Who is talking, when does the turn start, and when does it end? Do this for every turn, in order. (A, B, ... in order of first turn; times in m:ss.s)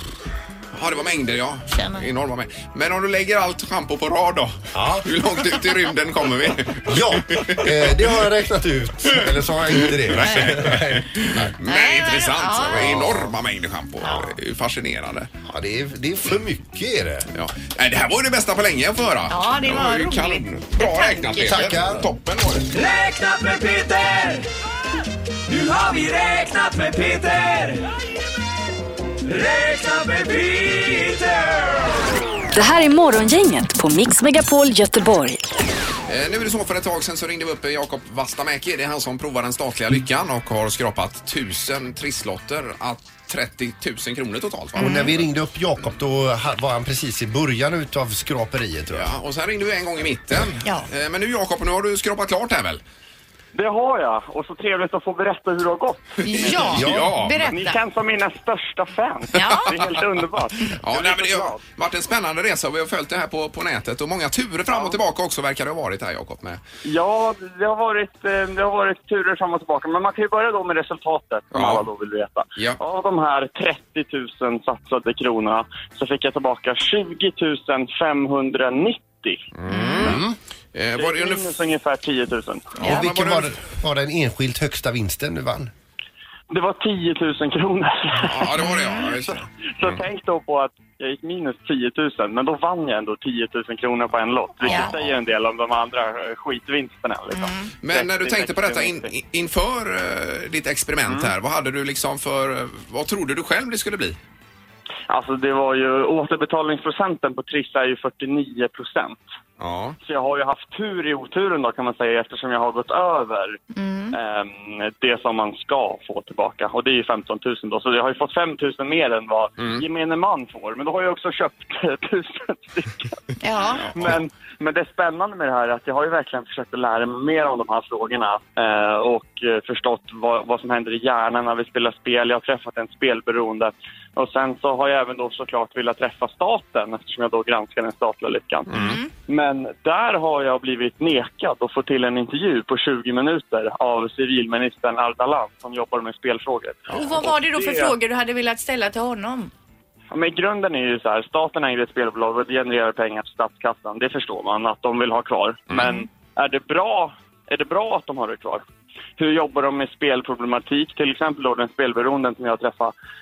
0:00.7-0:08.0 A
0:01.7-0:02.1 B
0:04.7-0:05.1 C
0:06.9-0:11.5 C
0:09.8-0:15.3 A
0:11.6-0:13.0 B
0:12.7-0:13.3 C
0:14.0-0:14.3 B
0:15.4-0:17.3 C
0:17.3-0:22.7 A
0:19.3-0:21.7 B
0:21.5-0:22.0 C
0:22.7-0:24.5 D
0:25.5-0:28.1 D
0:29.2-0:31.9 D
0:32.5-0:35.4 E
0:36.1-0:45.3 A
0:44.8-0:49.1 C
0:44.8-0:45.1 B
0:48.9-0:52.8 A
0:53.5-0:56.8 F
0:56.2-0:57.8 B
0:56.3-0:57.5 A
0:56.7-0:57.1 C
0:57.4-1:01.6 F
0:59.3-0:59.8 B
0:59.5-1:00.0 A
1:00.7-1:06.6 A
1:04.7-1:05.0 F
1:06.8-1:19.4 F
1:11.5-1:11.9 A
1:19.6-1:21.6 A
1:19.7-1:20.2 B
1:20.0-1:20.4 C
1:21.0-1:22.8 F
1:22.8-1:23.5 A
1:22.8-1:25.7 C
1:26.5-1:39.1 F
1:28.2-1:30.0 A
1:28.7-1:29.0 B
1:34.6-1:35.2 A
1:34.6-1:34.9 B
1:37.3-1:37.7 B
1:37.8-1:44.2 A
1:45.1-1:49.2 F
1:49.6-1:50.0 A
1:50.0-1:53.6 F
1:53.7-1:54.2 B
1:54.1-2:03.2 F
1:59.6-1:59.8 A
2:03.4-2:03.9 B
2:03.8-2:04.2 A
2:04.0-2:27.8 F
2:18.7-2:19.1 B
2:26.9-2:29.5 B
2:30.1-2:38.6 F
2:35.7-2:36.0 A
2:39.2-2:42.9 F